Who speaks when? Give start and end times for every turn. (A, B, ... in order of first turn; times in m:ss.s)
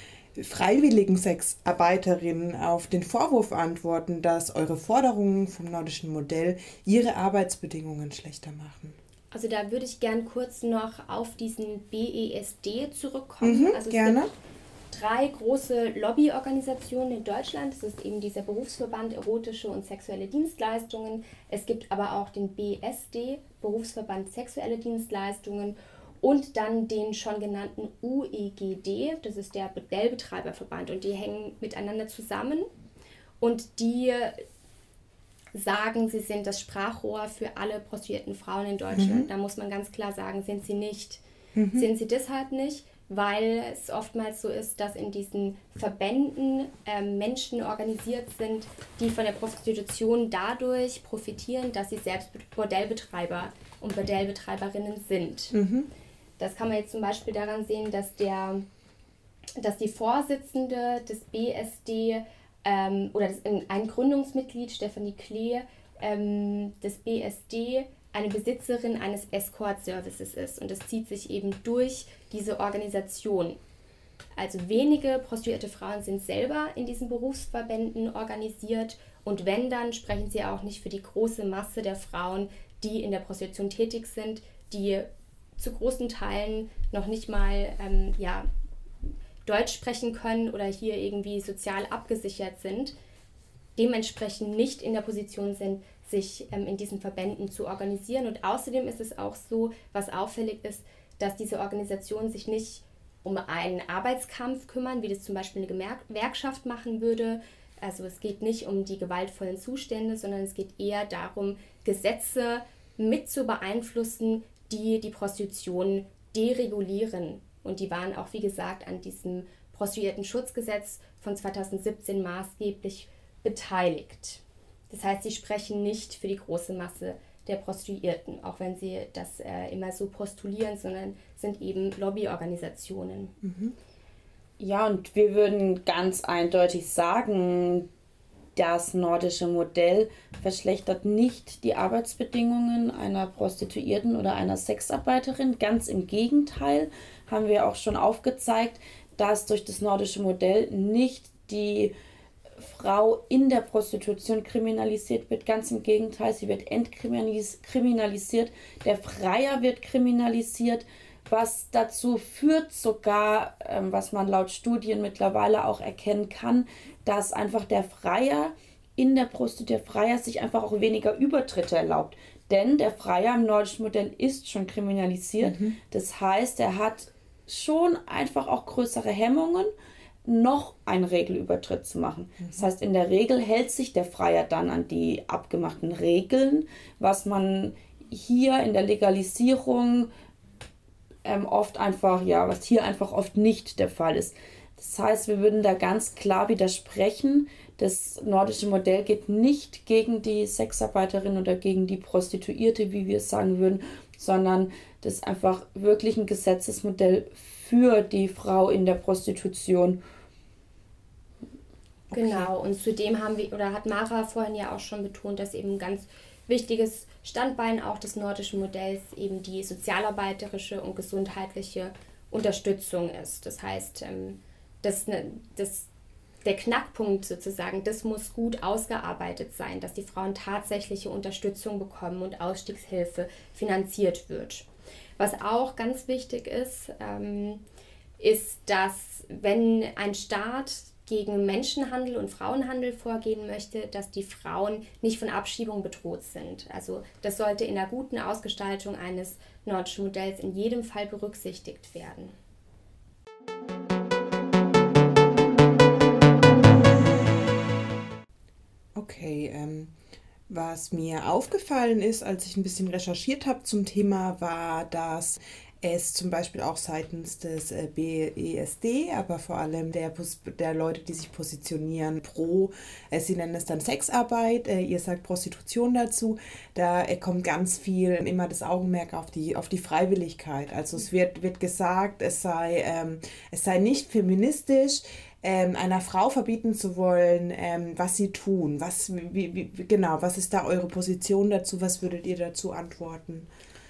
0:00.4-0:09.0 A
0:09.3-0:14.3 B
0:13.4-0:14.3 A
0:14.9-0:32.7 B
0:33.4-0:34.4 B
0:35.5-0:41.2 B
0:39.0-0:39.3 A
0:41.6-0:41.9 A
0:41.8-0:55.6 B
0:55.5-0:55.9 A
0:56.4-0:58.6 B
0:59.6-1:13.6 B
1:14.4-1:28.5 B
1:29.4-1:32.9 B
1:33.8-2:13.4 B
2:13.4-2:13.7 A
2:14.6-2:17.9 C
2:18.6-2:31.9 C
2:32.6-2:59.7 C
2:55.4-2:55.8 A
3:00.2-3:10.1 C
3:11.2-3:30.0 C
3:32.1-3:32.4 A
3:32.1-3:45.9 B
3:46.4-3:54.7 B
3:55.2-3:57.6 B
3:58.2-4:12.4 B
4:19.0-4:19.9 A
4:20.5-4:53.5 A